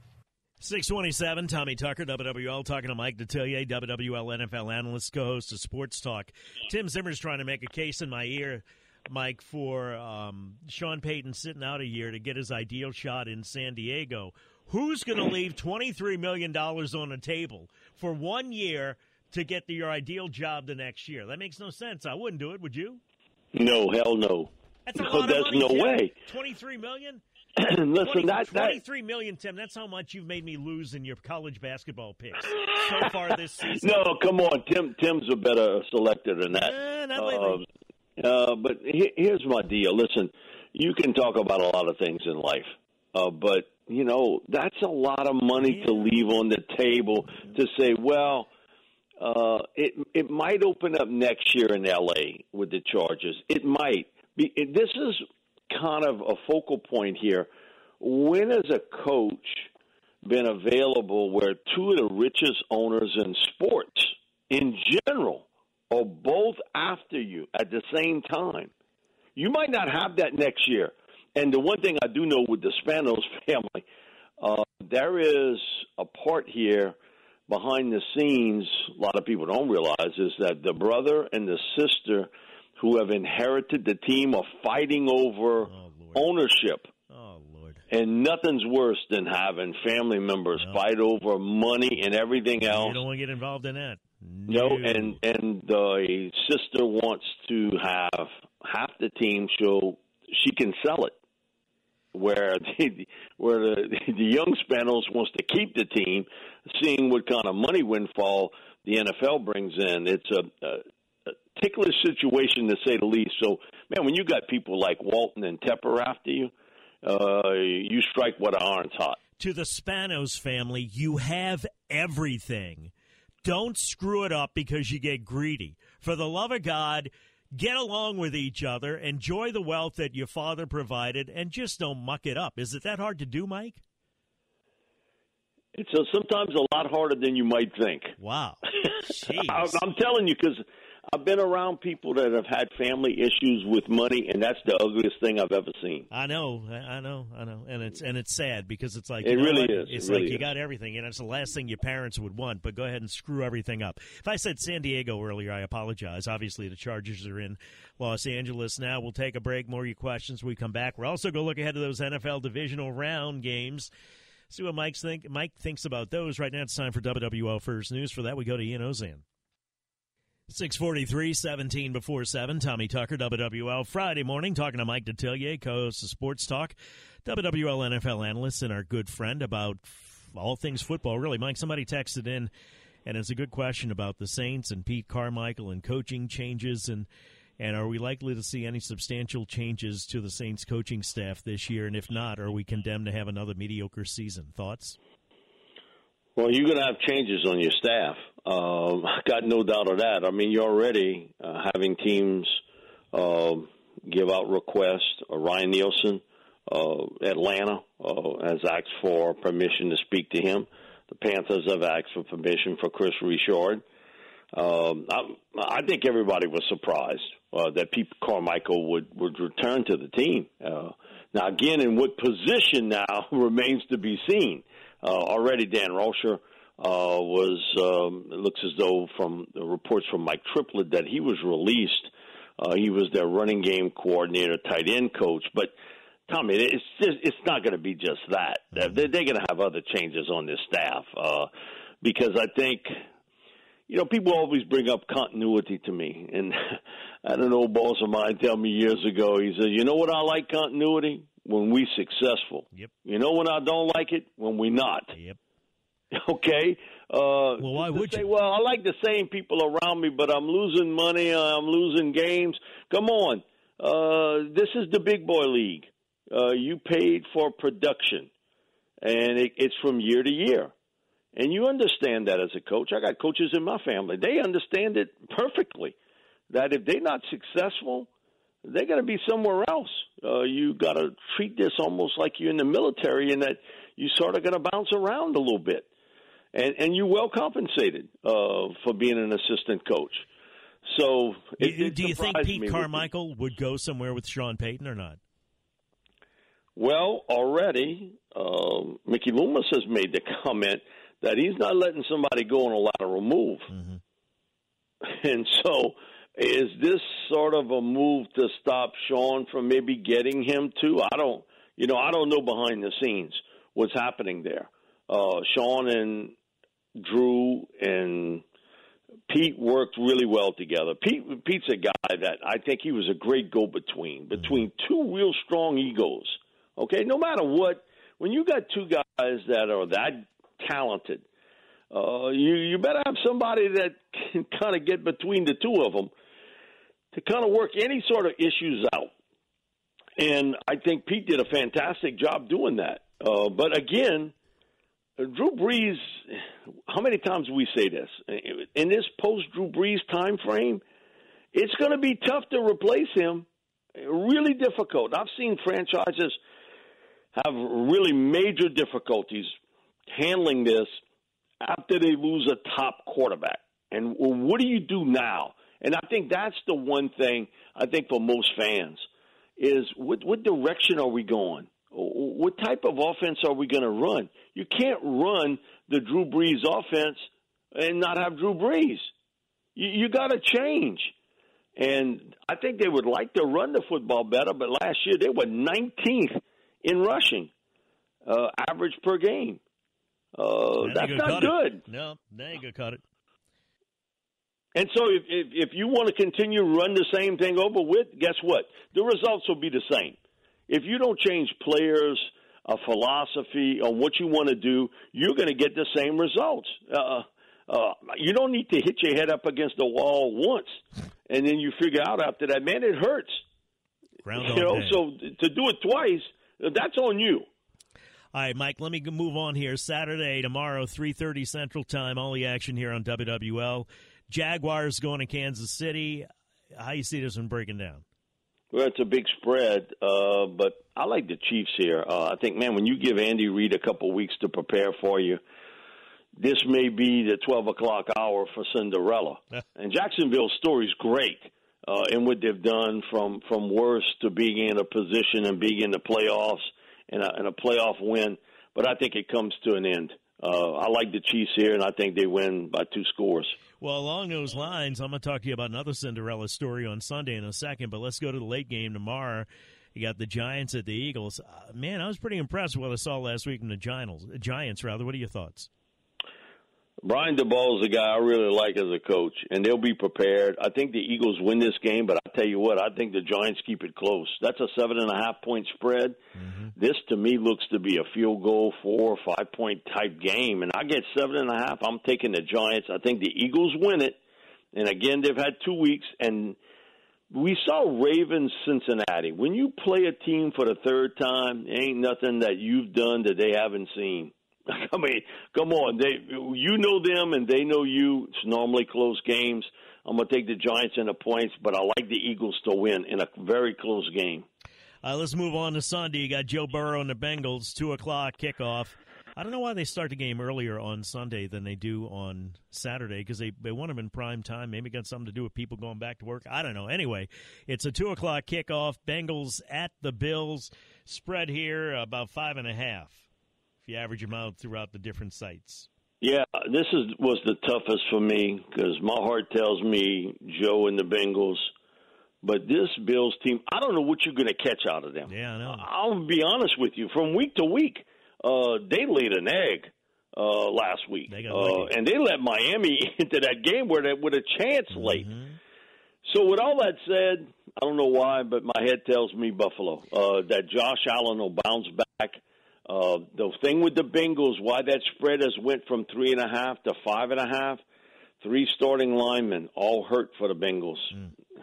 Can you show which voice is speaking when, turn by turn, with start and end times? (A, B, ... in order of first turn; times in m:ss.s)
0:00.6-0:23.0 A
0:23.5-0:26.1 B
0:24.9-0:27.2 A
0:27.6-0:28.8 B
0:28.0-0:33.9 A
0:32.5-0:33.1 B
0:33.7-0:37.6 B
0:36.5-0:37.6 A
0:38.2-0:48.5 B
0:45.6-0:46.1 A
0:49.2-0:57.5 B
0:58.0-0:59.7 B
1:00.2-1:08.7 B
1:09.4-1:13.8 B
1:14.4-1:17.0 B
1:17.5-1:26.9 B
1:25.7-1:26.3 A
1:27.1-1:27.8 A
1:27.9-1:33.0 B
1:32.6-1:35.2 A
1:34.5-1:41.2 B
1:42.1-1:50.8 B
1:51.6-1:56.5 B
1:57.0-1:59.2 B
1:59.4-2:02.9 A
2:03.4-2:13.8 A
2:15.8-2:18.2 B
2:18.2-2:19.8 A
2:18.7-2:26.1 B
2:26.1-2:43.9 A
2:29.2-2:30.5 B
2:44.5-2:49.2 A
2:50.5-3:02.5 A
3:03.1-3:07.1 A
3:07.6-3:15.0 A
3:16.4-3:22.6 B
3:23.1-3:33.8 B
3:34.5-3:55.7 B
3:56.3-4:01.5 B
4:02.0-4:02.9 B
4:03.9-4:15.2 B
4:15.1-4:15.4 A
4:16.1-4:28.3 B
4:17.6-4:18.2 A
4:29.0-4:30.7 B
4:31.4-4:35.9 B
4:36.5-4:38.1 B
4:38.6-4:45.9 B
4:46.5-4:50.3 B
4:50.9-4:53.1 B
4:51.6-4:55.2 A
4:56.8-5:03.7 B
5:03.7-5:04.0 A
5:05.0-5:16.3 B
5:17.0-5:18.4 B
5:19.3-5:31.2 B
5:31.9-5:36.1 B
5:37.1-5:39.1 B
5:40.2-5:44.3 B
5:45.2-5:50.8 B
5:51.5-5:53.5 B
5:54.0-5:56.4 B
5:57.4-5:59.5 B
6:00.1-6:00.9 B
6:01.6-6:09.0 B
6:09.6-6:17.2 B
6:17.7-6:19.1 B
6:19.8-6:21.1 B
6:21.8-6:27.5 B
6:28.2-6:29.6 B
6:30.4-6:31.8 B
6:30.8-6:33.0 A
6:34.8-6:40.2 B
6:40.7-6:53.4 B
6:54.2-6:55.0 A
6:54.4-6:57.5 B
6:58.3-7:08.0 A
7:08.7-7:15.4 B
7:16.4-7:33.6 B
7:33.8-7:45.7 A
7:47.0-7:56.2 B
7:56.4-7:56.7 A
7:56.8-8:04.2 B
8:04.7-8:06.6 B
8:07.3-8:24.5 B
8:25.0-8:43.2 A
8:43.8-8:45.9 A
8:46.2-8:51.7 B
8:52.4-9:05.3 B
8:55.3-8:55.9 A
9:01.3-9:01.9 A
9:04.9-9:05.6 A
9:06.2-9:17.8 B
9:18.4-9:21.2 B